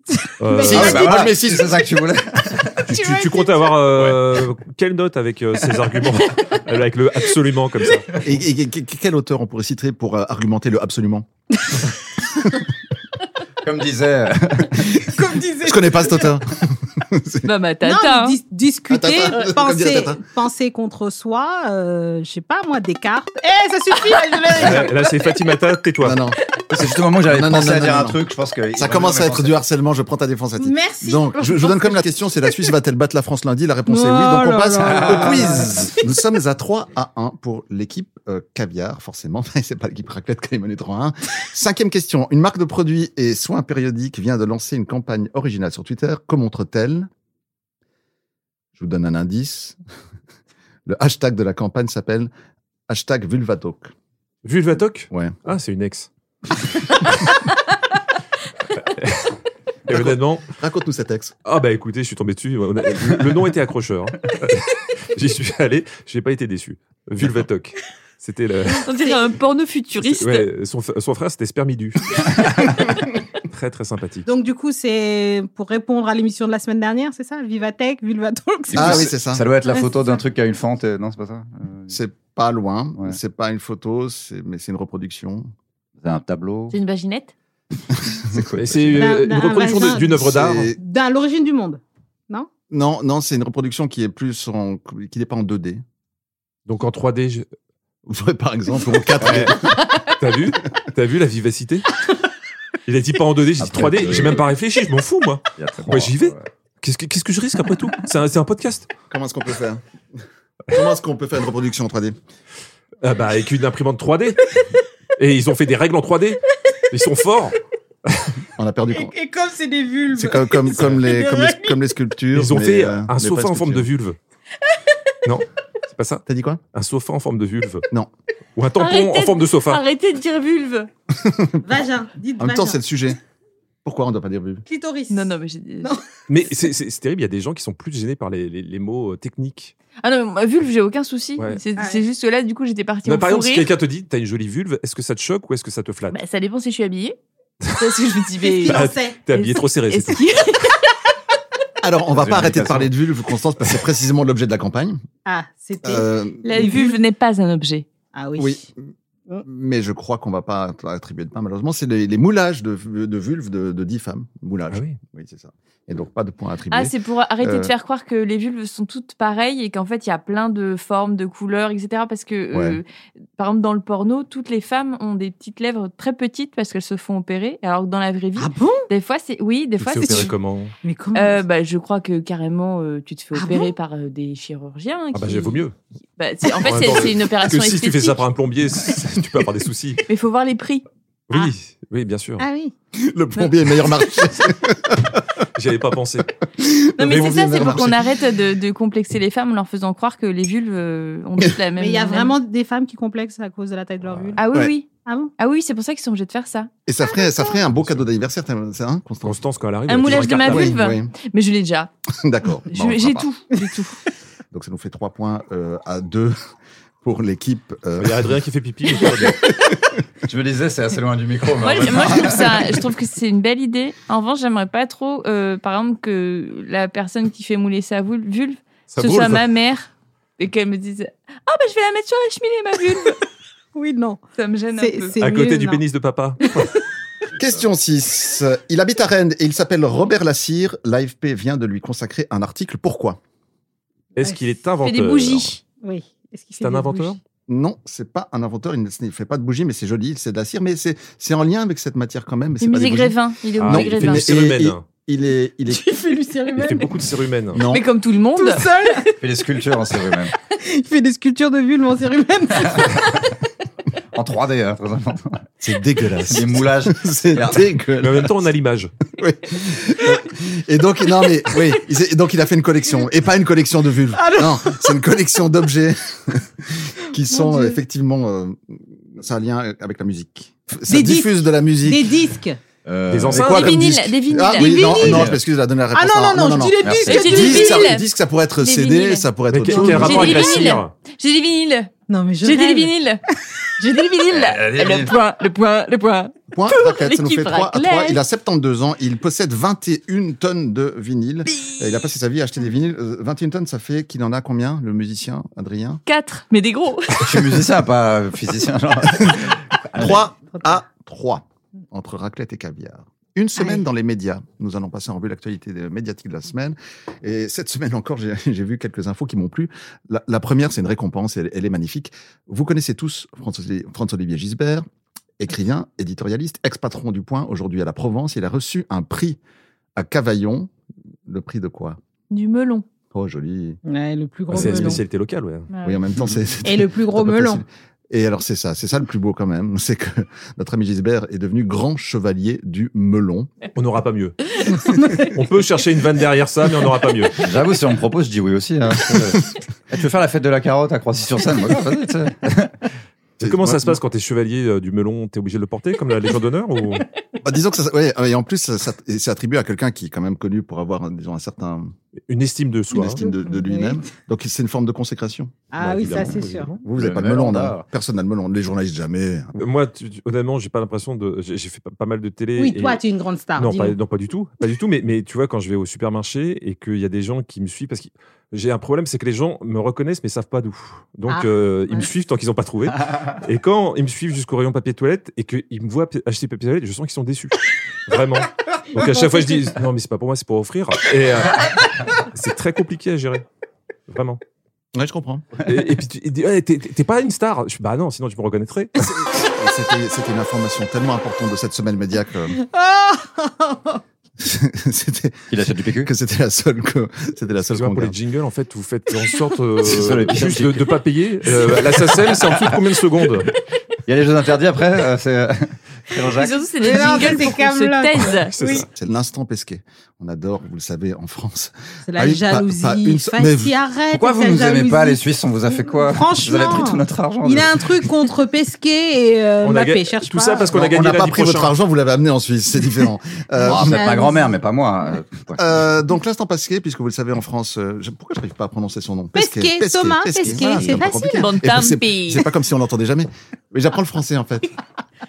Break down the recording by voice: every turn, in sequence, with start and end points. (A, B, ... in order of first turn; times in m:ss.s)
0:00.2-0:01.2 A
0:00.4-0:01.1 B
0:00.6-0:01.8 C
0:00.6-0:02.9 D
0:02.9-0:08.1 B
0:02.9-0:03.7 A
0:08.2-0:11.2 C
0:13.6-0:15.1 D
0:15.0-0:16.3 A
0:15.6-0:17.5 C
0:17.4-0:18.4 E
0:17.8-0:24.9 A
0:18.9-0:20.2 C
0:24.6-0:26.2 B
0:26.0-0:28.2 C
0:26.7-0:29.6 D
0:28.7-0:47.1 C
0:30.6-0:32.5 A
0:33.9-0:35.9 A
0:34.8-0:35.8 D
0:48.8-0:49.8 C
0:50.9-0:52.3 C
0:52.9-0:53.9 C
0:54.4-0:56.1 B
0:58.9-0:59.3 B
0:59.9-1:00.4 B
0:59.9-1:01.3 C
1:01.4-1:08.9 B
1:08.7-1:10.5 E
1:10.0-1:12.9 B
1:13.4-1:14.3 B
1:14.2-1:19.1 A
1:18.7-1:21.9 D
1:18.7-1:19.4 C
1:19.7-1:20.2 A
1:21.9-1:25.5 C
1:26.0-1:26.8 D
1:26.7-1:27.3 E
1:28.2-1:29.1 D
1:28.6-1:30.7 B
1:28.9-1:30.2 A
1:29.6-1:30.8 C
1:30.7-1:32.5 A
1:32.7-1:35.8 C
1:36.7-1:37.4 B
1:38.1-1:39.8 C
1:39.2-1:39.6 D
1:40.2-1:41.8 B
1:42.9-1:48.9 B
1:43.6-1:44.5 D
1:45.6-1:46.5 D
1:49.1-1:49.8 C
1:50.7-1:52.2 C
1:53.0-1:54.6 B
1:55.2-1:58.3 B
1:58.6-1:59.1 C
1:58.9-2:01.8 A
2:00.1-2:03.9 C
2:02.3-2:04.2 B
2:05.2-2:07.8 B
2:06.3-2:06.6 C
2:08.6-2:09.8 B
2:08.8-2:10.9 E
2:11.2-2:11.6 C
2:11.6-2:12.8 A
2:12.4-2:13.2 C
2:13.8-2:14.6 C
2:14.6-2:16.0 A
2:15.1-2:15.9 E
2:16.3-2:19.7 B
2:20.0-2:23.7 E
2:23.0-2:26.2 B
2:26.1-2:27.2 E
2:27.7-2:30.8 E
2:28.4-2:29.2 A
2:28.7-2:30.2 B
2:31.8-2:35.0 C
2:32.1-2:32.9 D
2:35.2-2:37.0 A
2:35.8-2:36.4 C
2:36.4-2:37.8 E
2:38.1-2:38.6 A
2:38.4-2:38.8 C
2:39.4-2:47.7 C
2:44.7-2:45.0 B
2:46.7-2:52.8 E
2:52.5-2:52.8 C
2:53.4-3:00.3 E
2:58.4-2:58.9 A
2:59.8-3:00.7 B
3:00.8-3:01.4 A
3:01.1-3:08.2 E
3:03.3-3:03.7 A
3:05.1-3:05.7 B
3:06.6-3:10.0 B
3:10.1-3:10.8 E
3:11.3-3:12.4 B
3:12.4-3:12.7 A
3:12.9-3:15.2 C
3:15.6-3:16.3 B
3:16.5-3:18.1 C
3:17.0-3:22.4 E
3:17.1-3:17.6 B
3:21.8-3:24.4 A
3:24.4-3:26.7 E
3:25.0-3:25.3 A
3:26.8-3:29.4 C
3:27.1-3:27.5 A
3:27.7-3:28.0 B
3:29.2-3:30.8 B
3:29.9-3:31.9 E
3:30.1-3:31.1 C
3:32.2-3:33.3 C
3:32.7-3:34.0 E
3:34.5-3:36.3 C
3:37.0-3:38.3 C
3:38.0-3:39.4 B
3:39.0-3:39.7 C
3:40.2-3:42.9 D
3:41.6-3:53.2 E
3:48.9-3:49.4 B
3:53.7-3:54.2 A
3:54.4-3:55.2 E
3:54.8-3:55.8 A
3:55.2-3:56.7 B
3:57.4-4:03.2 C
4:04.2-4:05.5 B
4:04.8-4:05.6 E
4:05.8-4:07.2 A
4:06.6-4:07.2 B
4:07.5-4:15.9 C
4:12.6-4:14.2 E
4:13.6-4:14.8 B
4:15.7-4:16.9 A
4:16.6-4:17.6 B
4:17.5-4:17.9 C
4:17.6-4:19.0 E
4:18.4-4:19.1 A
4:19.2-4:20.3 D
4:20.4-4:23.2 A
4:24.1-4:25.5 D
4:25.6-4:28.3 C
4:26.2-4:27.7 D
4:28.0-4:28.9 B
4:29.1-4:42.1 C
4:34.1-4:34.9 A
4:37.3-4:37.8 A
4:40.9-4:42.6 A
4:42.8-4:43.6 D
4:43.1-4:43.7 B
4:43.3-4:50.7 C
4:43.4-4:45.3 E
4:44.6-4:45.3 A
4:44.9-4:45.4 D
4:45.9-4:47.9 A
4:46.8-4:47.5 D
4:47.0-4:48.1 E
4:48.6-4:49.3 E
4:49.5-4:50.9 B
4:49.8-4:51.9 E
4:52.1-4:52.9 A
4:52.4-4:53.2 E
4:53.8-4:58.2 E
4:54.3-4:55.2 D
4:56.5-5:06.0 C
5:06.0-5:07.3 E
5:07.2-5:10.2 D
5:09.9-5:24.8 C
5:13.6-5:13.8 A
5:25.4-5:29.4 C
5:30.0-5:30.7 C
5:31.3-5:32.0 C
5:32.3-5:32.8 E
5:33.1-5:33.8 C
5:33.8-5:35.0 A
5:34.5-5:35.7 B
5:34.5-5:35.0 C
5:35.7-5:36.0 E
5:35.8-5:43.5 C
5:36.6-5:37.6 A
5:43.7-5:44.4 B
5:44.7-5:45.3 A
5:45.3-5:47.3 B
5:47.4-5:52.8 D
5:53.4-5:57.0 B
5:53.4-5:54.0 C
5:57.4-6:01.9 C
6:02.3-6:03.2 B
6:02.9-6:05.6 C
6:02.9-6:04.0 A
6:05.7-6:06.7 A
6:05.8-6:06.8 B
6:06.8-6:09.5 C
6:06.9-6:07.8 D
6:09.6-6:13.0 B
6:12.6-6:14.0 A
6:13.6-6:33.4 B
6:21.3-6:22.1 A
6:28.9-6:29.6 A
6:34.1-6:34.4 B
6:34.9-6:35.5 C
6:35.6-6:39.0 B
6:39.0-6:42.6 C
6:42.6-6:44.0 A
6:44.4-6:48.1 C
6:45.5-6:46.1 D
6:47.7-6:53.5 B
6:49.8-6:52.8 D
6:54.0-6:57.4 D
6:56.3-6:58.8 E
6:56.8-6:58.8 A
6:58.5-6:58.9 B
6:58.9-7:03.7 C
7:02.0-7:05.2 A
7:04.1-7:08.1 D
7:05.8-7:10.7 A
7:09.6-7:11.7 B
7:10.7-7:14.0 C
7:13.6-7:15.9 D
7:13.6-7:14.6 A
7:15.6-7:24.8 C
7:19.3-7:21.4 A
7:20.5-7:22.5 E